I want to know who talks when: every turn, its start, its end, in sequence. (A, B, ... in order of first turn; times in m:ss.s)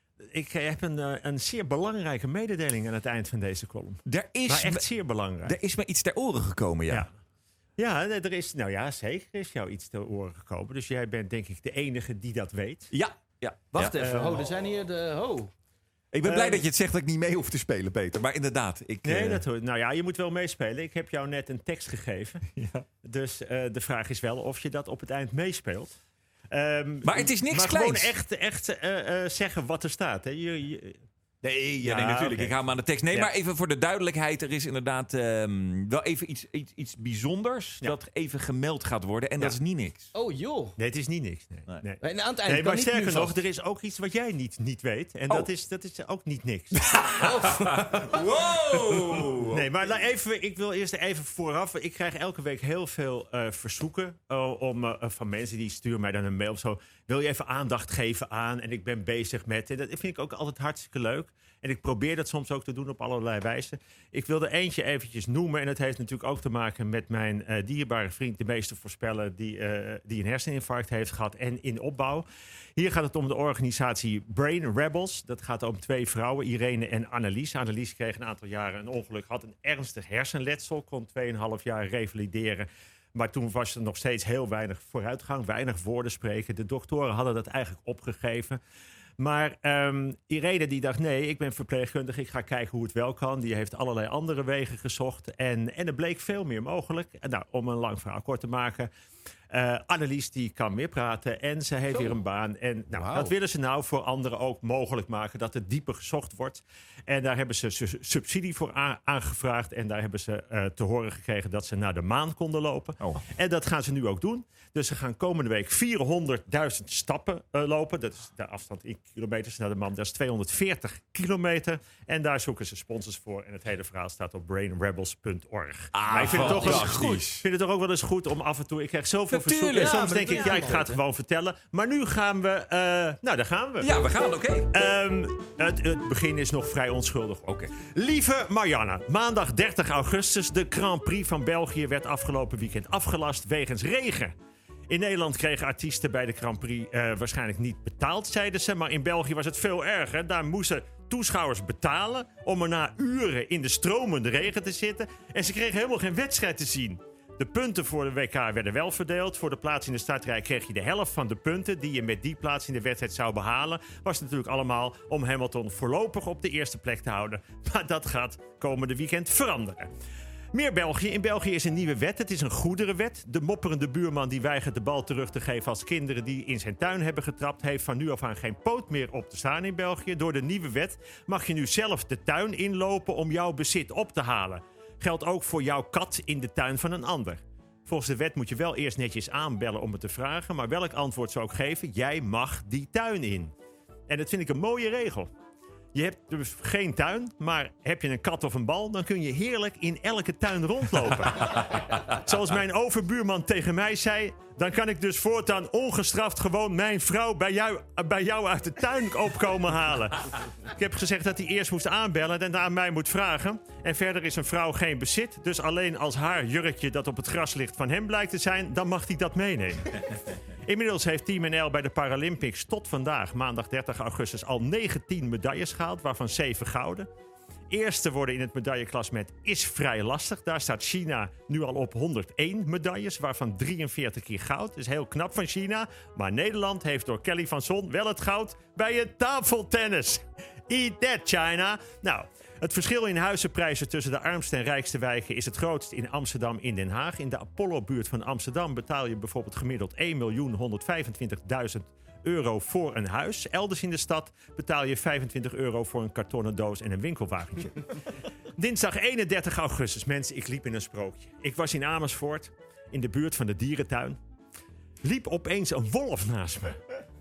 0:00.3-0:05.6 A
0:04.1-0:04.9 B
0:05.4-0:07.1 B
0:07.8-0:12.9 A
0:12.9-0:14.0 B
0:13.7-0:15.5 C
0:13.8-0:14.5 A
0:16.1-0:19.4 B
0:16.2-0:16.6 C
0:19.0-0:25.9 A
0:26.5-0:31.0 A
0:27.0-0:28.1 B
0:31.4-0:40.1 B
0:31.8-0:32.6 A
0:40.2-0:40.8 C
0:40.8-0:47.0 A
0:42.0-0:43.4 C
0:46.8-0:49.6 B
0:47.2-0:48.1 C
0:49.5-1:12.2 A
1:12.8-1:28.6 A
1:29.2-1:38.9 A
1:39.5-2:13.9 A
1:42.9-1:43.3 C
2:05.9-2:07.4 B
2:06.2-2:07.2 C
2:09.3-2:10.2 B
2:09.7-2:11.0 C
2:13.8-2:14.7 B
2:14.7-2:24.3 A
2:24.9-2:49.9 A
2:50.5-3:13.5 A
3:14.1-3:15.3 A
3:15.9-3:47.1 A
3:47.7-4:17.9 A
4:18.6-4:24.2 A
4:25.0-4:26.8 A